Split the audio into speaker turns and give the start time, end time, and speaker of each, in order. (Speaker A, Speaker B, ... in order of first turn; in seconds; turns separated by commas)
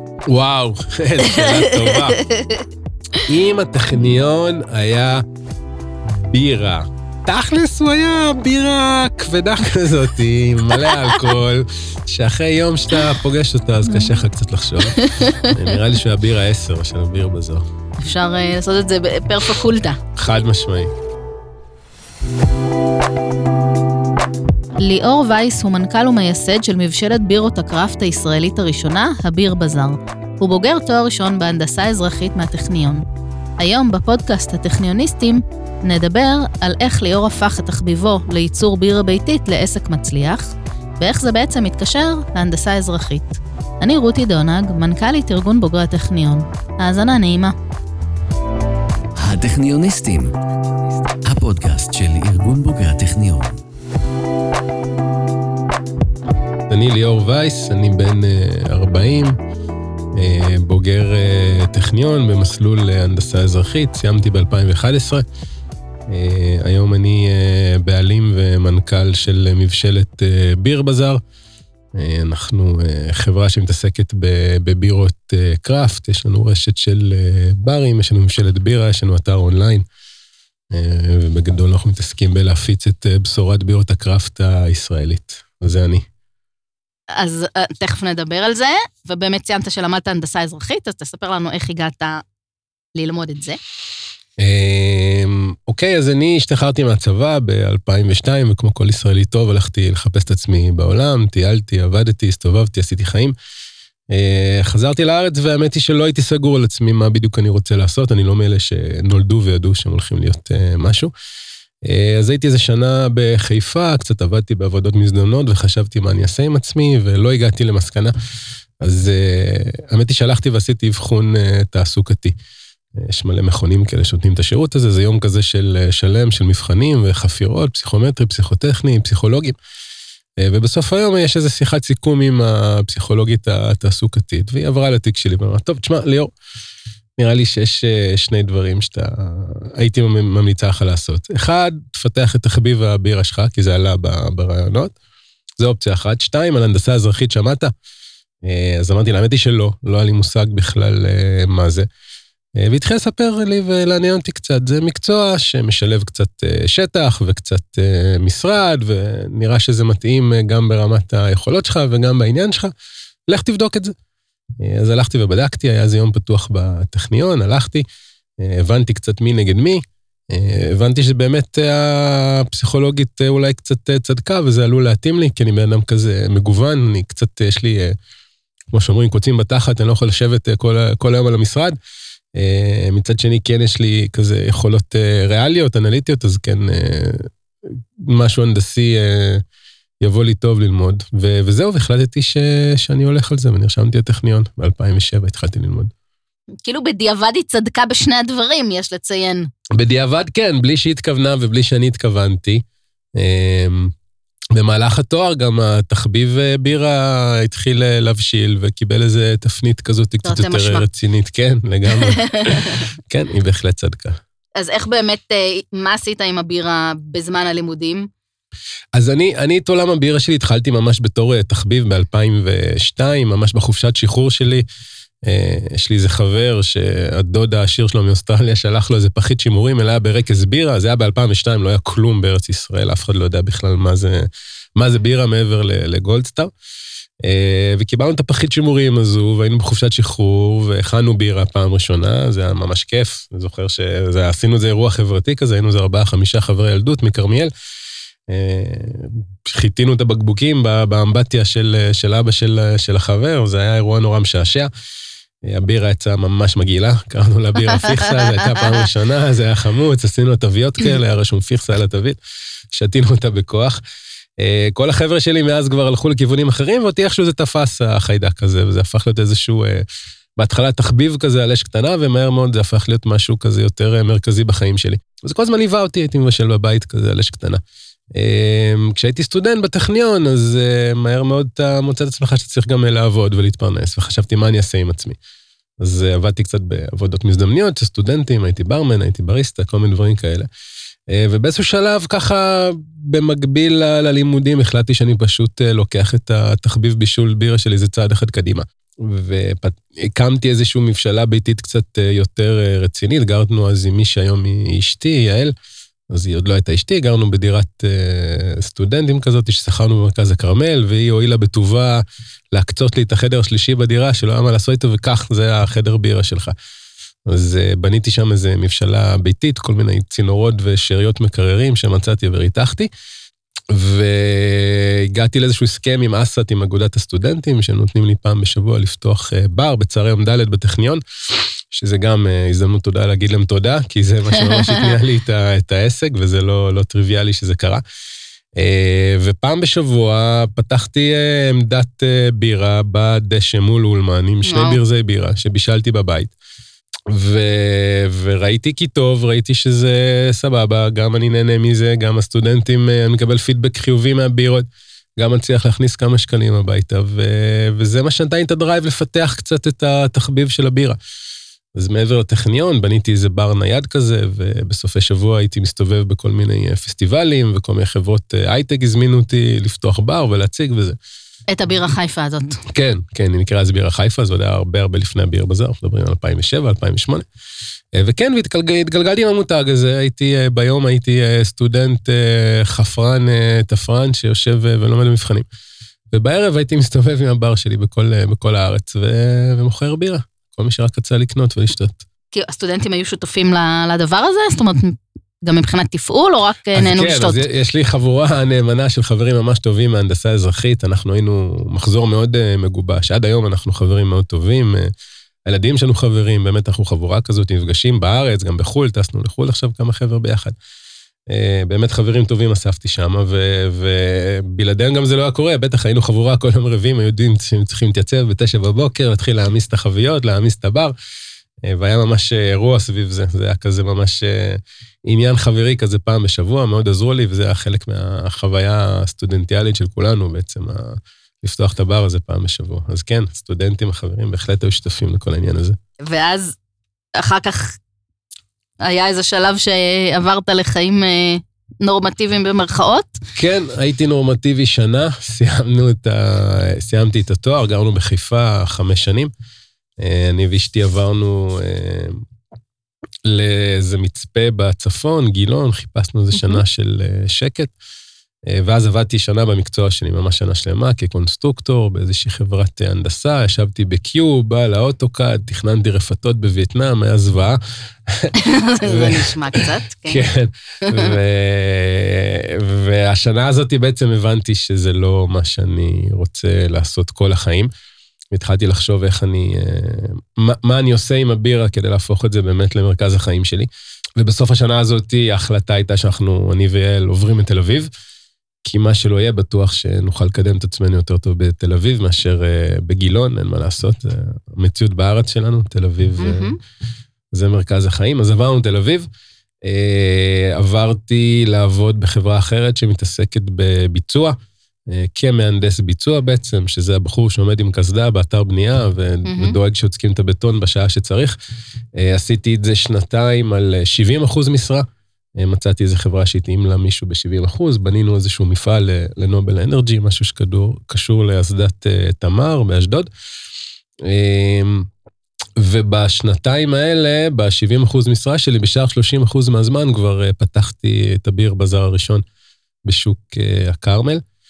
Speaker A: 0.3-2.2, Speaker B: 1.2-2.6, Speaker A: 3.2-5.2, Speaker A: 6.0-17.6, Speaker B: 14.9-15.6, Speaker B: 18.0-20.0, Speaker A: 20.1-20.9, Speaker B: 24.8-33.0, Speaker B: 33.6-47.5, Speaker C: 49.2-50.3, Speaker C: 51.2-53.6, Speaker A: 56.7-59.3, Speaker A: 60.1-65.2, Speaker A: 66.1-71.2, Speaker A: 71.9-79.8, Speaker A: 80.7-86.0, Speaker B: 87.1-92.2, Speaker B: 92.9-93.6, Speaker A: 94.4-103.3, Speaker A: 104.1-111.1, Speaker A: 111.8-118.1, Speaker A: 118.8-122.3, Speaker A: 122.9-129.6, Speaker A: 130.4-136.3, Speaker A: 137.2-144.9, Speaker A: 145.6-147.7, Speaker A: 148.4-151.9, Speaker A: 152.6-162.7, Speaker A: 163.3-163.9, Speaker A: 164.6-167.8, Speaker A: 168.4-178.0, Speaker A: 178.7-181.8, Speaker A: 182.3-189.4, Speaker A: 190.0-195.9, Speaker B: 196.6-199.5, Speaker A: 199.7-202.6, Speaker A: 203.2-203.9, Speaker A: 204.5-214.2, Speaker B: 210.2-210.8, Speaker B: 211.9-212.8, Speaker B: 214.6-218.1, Speaker A: 218.9-224.7, Speaker A: 225.2-236.5, Speaker A: 237.2-247.5, Speaker A: 248.3-254.7, Speaker A: 255.4-262.2, Speaker A: 262.7-263.8, Speaker A: 264.4-269.9, Speaker A: 270.4-277.6, Speaker A: 278.1-285.2, Speaker A: 285.8-290.5, Speaker A: 291.1-305.5, Speaker A: 306.1-316.5, Speaker A: 317.2-322.9, Speaker A: 323.7-337.8, Speaker B: 334.4-334.9, Speaker A: 338.6-346.3, Speaker B: 344.4-344.8, Speaker A: 347.1-354.7, Speaker A: 355.2-361.0, Speaker A: 361.7-371.0, Speaker B: 371.5-372.6, Speaker A: 372.7-377.2, Speaker A: 377.9-385.5, Speaker A: 386.1-392.0, Speaker B: 392.3-397.4, Speaker A: 396.7-404.9, Speaker A: 405.4-410.6, Speaker A: 411.3-420.9, Speaker A: 421.6-435.8, Speaker B: 436.0-436.6, Speaker B: 437.2-437.8, Speaker B: 438.8-443.2, Speaker A: 443.4-449.3, Speaker A: 450.0-452.2, Speaker A: 453.2-457.7, Speaker B: 456.3-456.6, Speaker A: 458.5-477.7, Speaker B: 468.4-470.3, Speaker B: 470.8-471.1, Speaker A: 478.3-487.9, Speaker A: 488.6-496.6, Speaker B: 496.2-496.6, Speaker A: 497.3-499.1, Speaker A: 499.6-504.4, Speaker A: 504.9-511.4, Speaker B: 509.2-509.6, Speaker A: 511.9-514.8, Speaker A: 515.4-523.1, Speaker A: 524.0-524.9, Speaker A: 525.6-532.2, Speaker A: 532.8-534.2